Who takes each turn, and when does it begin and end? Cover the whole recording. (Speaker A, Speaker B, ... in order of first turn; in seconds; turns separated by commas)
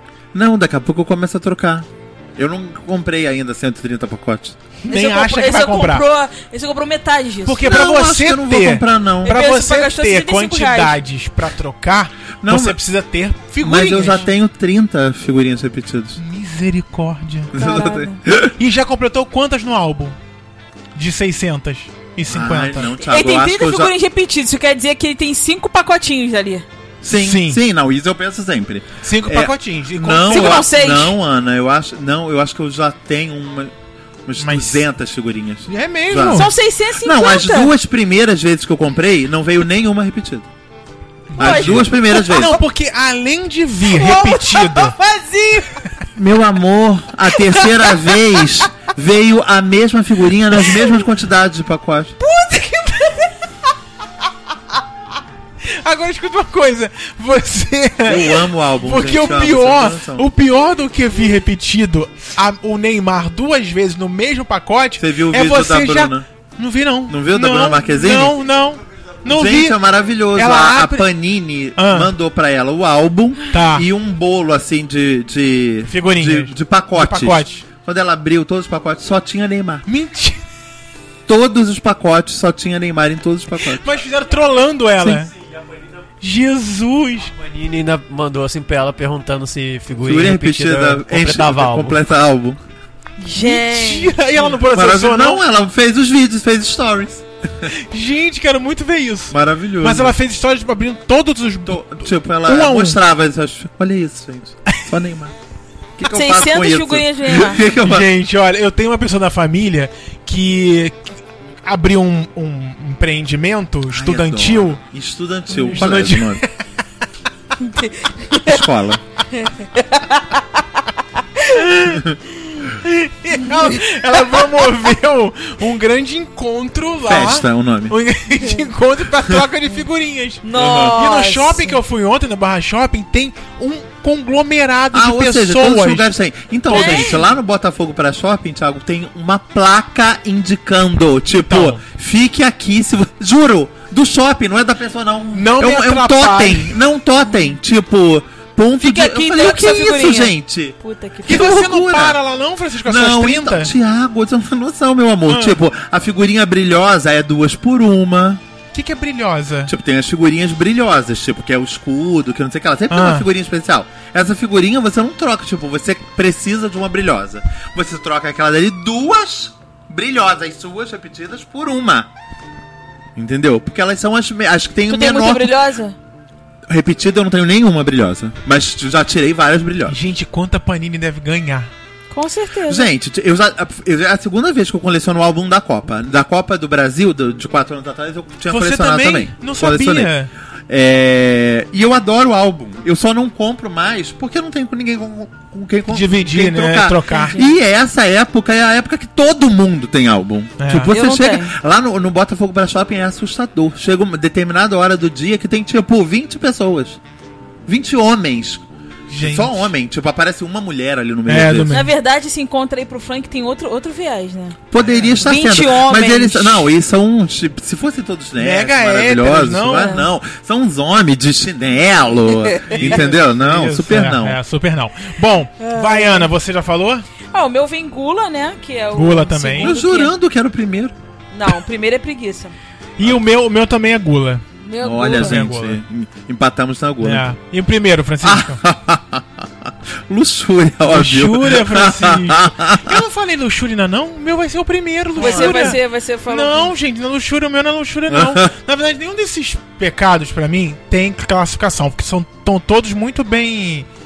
Speaker A: 0.3-4.6, Speaker B: 4.8-6.0, Speaker C: 4.9-7.6, Speaker B: 7.5-14.3, Speaker A: 7.5-9.4, Speaker C: 9.2-11.0, Speaker A: 12.4-12.8, Speaker A: 13.6-16.2, Speaker B: 16.2-17.6, Speaker A: 17.5-18.5, Speaker C: 17.6-18.2, Speaker B: 18.4-20.2, Speaker B: 20.9-22.9, Speaker A: 22.3-23.9, Speaker C: 23.0-26.6, Speaker A: 27.0-33.7, Speaker B: 27.1-27.6, Speaker B: 29.0-30.6, Speaker C: 30.3-31.2, Speaker A: 34.2-40.5, Speaker B: 34.4-34.8, Speaker B: 35.7-36.5, Speaker C: 36.3-37.7, Speaker B: 41.3-44.9, Speaker A: 41.4-42.6, Speaker C: 41.4-42.6, Speaker C: 43.8-45.8, Speaker A: 46.1-52.1, Speaker C: 52.2-53.3, Speaker B: 55.6-69.8, Speaker A: 58.0-60.3, Speaker A: 65.0-66.2, Speaker A: 67.1-68.4, Speaker A: 69.2-79.8, Speaker B: 70.3-71.1, Speaker B: 71.8-72.1, Speaker B: 73.5-73.8, Speaker B: 75.9-77.6, Speaker B: 79.9-80.4, Speaker A: 81.3-83.8, Speaker B: 83.8-85.3, Speaker D: 85.1-85.8, Speaker B: 86.2-87.3, Speaker D: 87.3-92.0, Speaker A: 90.0-92.6, Speaker C: 93.2-94.2, Speaker B: 93.3-95.4, Speaker A: 94.7-97.7, Speaker B: 97.7-103.0, Speaker A: 99.3-100.2, Speaker A: 101.6-105.3, Speaker A: 106.0-108.1, Speaker C: 106.1-107.6, Speaker B: 107.8-111.0, Speaker B: 111.6-114.8, Speaker A: 113.9-116.4, Speaker B: 115.5-116.5, Speaker C: 117.6-118.6, Speaker A: 118.4-119.0, Speaker C: 119.3-120.6, Speaker B: 121.5-122.0, Speaker B: 122.8-136.1, Speaker C: 123.5-124.7, Speaker A: 127.0-128.0, Speaker C: 128.4-128.7, Speaker C: 130.4-131.8, Speaker A: 130.5-131.0, Speaker A: 134.9-152.2, Speaker B: 136.7-137.2, Speaker C: 136.7-137.2, Speaker B: 141.3-141.8, Speaker B: 145.3-146.8, Speaker C: 148.8-151.6, Speaker B: 151.3-153.7, Speaker A: 152.8-158.4, Speaker B: 155.3-155.6, Speaker B: 158.7-159.7, Speaker A: 159.7-172.1, Speaker B: 162.9-163.3, Speaker A: 173.2-175.6, Speaker C: 174.9-175.9, Speaker A: 176.7-179.9, Speaker B: 179.9-181.7, Speaker C: 182.1-182.9, Speaker A: 182.7-190.1, Speaker B: 188.5-190.3, Speaker A: 190.7-207.0, Speaker B: 195.9-197.4, Speaker C: 197.1-197.5, Speaker B: 200.6-200.9, Speaker C: 200.9-201.5, Speaker A: 207.7-208.6, Speaker B: 209.1-209.7, Speaker A: 209.2-211.8, Speaker B: 211.3-211.9, Speaker C: 211.7-214.6, Speaker A: 214.7-224.4, Speaker B: 214.8-215.2, Speaker C: 215.2-216.7, Speaker B: 218.4-220.0, Speaker C: 219.7-220.1, Speaker C: 222.4-223.0, Speaker B: 222.7-227.0, Speaker C: 225.6-226.3, Speaker C: 227.3-230.1, Speaker B: 228.9-229.7, Speaker A: 229.6-230.9, Speaker C: 231.3-232.5, Speaker B: 233.0-234.4, Speaker C: 234.6-235.4, Speaker A: 234.8-237.2, Speaker B: 235.1-235.8, Speaker B: 237.0-238.6, Speaker A: 238.2-243.0, Speaker B: 240.8-253.9, Speaker A: 245.2-245.8, Speaker C: 245.2-246.7, Speaker A: 248.1-248.5